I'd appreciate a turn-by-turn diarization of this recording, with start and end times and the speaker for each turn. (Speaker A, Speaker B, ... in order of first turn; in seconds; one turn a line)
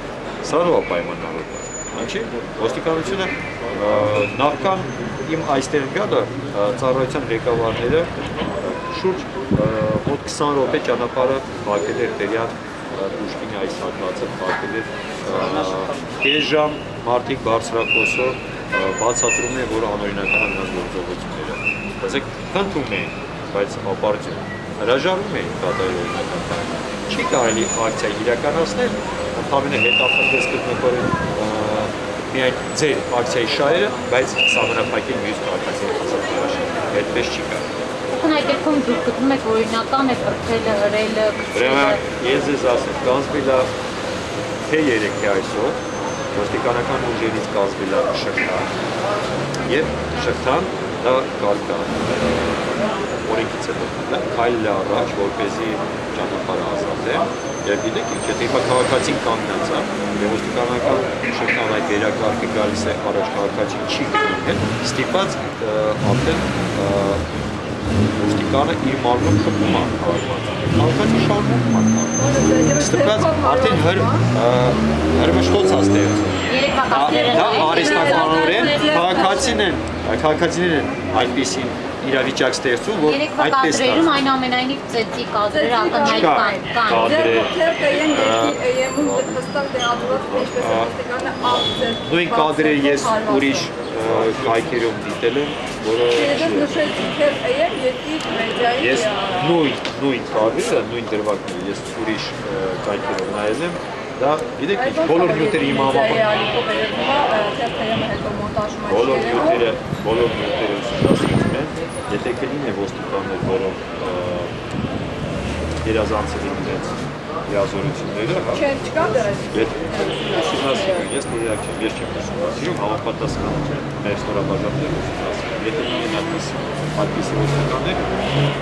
Speaker A: 0.4-37.7
Speaker B: 38.1-42.0
Speaker A: 41.5-43.7
Speaker A: 44.6-45.8
Speaker A: 46.3-48.7
Speaker A: 49.6-67.2
Speaker A: 68.2-84.2
Speaker C: 72.2-74.2
Speaker B: 76.5-79.4
Speaker C: 77.1-79.6
Speaker B: 83.0-87.2
Speaker C: 85.5-93.7
Speaker A: 86.0-89.4
Speaker A: 89.9-90.9
Speaker A: 92.0-96.7
Speaker C: 96.1-99.6
Speaker A: 98.7-106.3
Speaker C: 104.7-109.7
Speaker A: 108.8-114.5
Speaker A: 115.8-118.7
Speaker C: 118.5-121.1
Speaker A: 119.5-128.0